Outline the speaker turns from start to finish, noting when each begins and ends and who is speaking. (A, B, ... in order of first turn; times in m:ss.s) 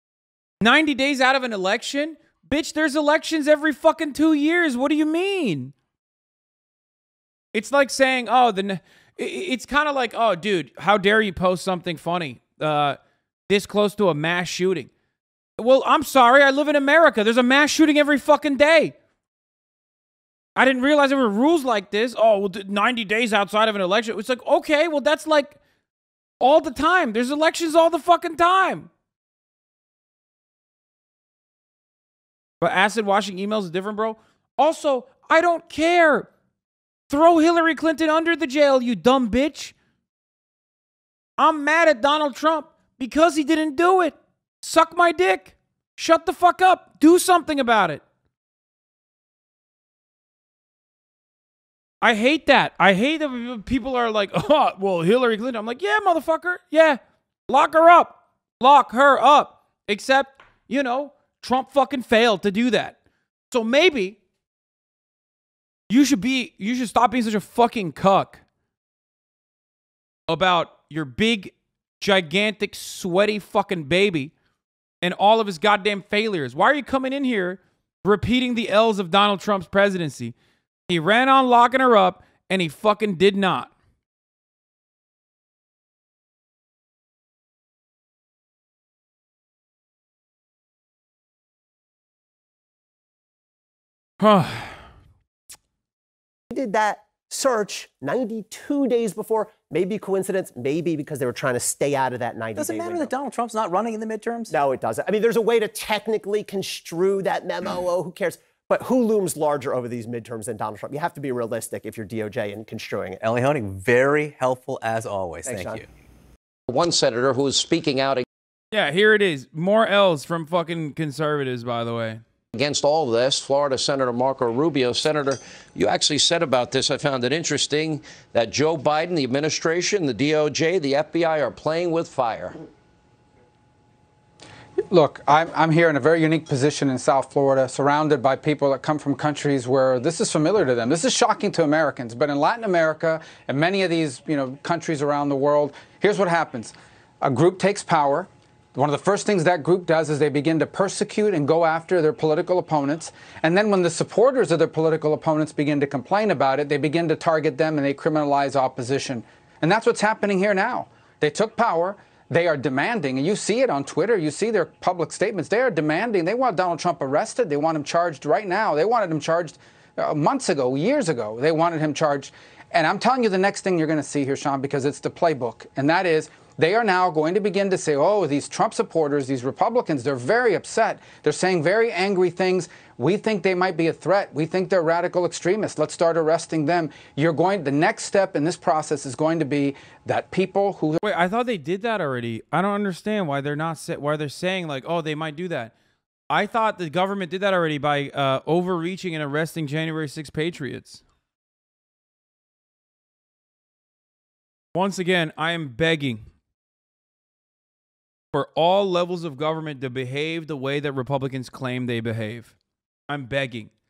0:00.6-0:05.7 A
0:07.5-0:13.0 A
0:13.5-0:14.9 A
0:15.6-0:19.0 A
0:20.6-0:25.6 A
0:26.4-0:28.9 A
0:32.6-0:36.3 A
0:37.1-0:39.7 A
0:41.4-0:48.0 A
0:52.0-1:03.0 A
1:03.5-1:04.2 A
1:05.9-1:08.4 A
1:10.3-1:14.3 A
1:15.0-1:20.3 A
1:20.9-1:23.7 A
1:34.2-1:34.8 A
1:36.5-1:43.1 B
1:42.6-1:44.5 C
1:44.5-1:53.2 B
1:53.2-1:55.9 C
1:55.5-1:55.8 B
1:56.7-1:58.2 D
1:58.7-2:02.2 A
2:02.5-2:12.6 D
2:14.9-3:11.0 E
3:11.0-3:15.7 A
3:16.3-3:21.0 A
3:24.7-3:26.3 A
3:28.3-3:32.6 A
3:33.1-3:33.7 A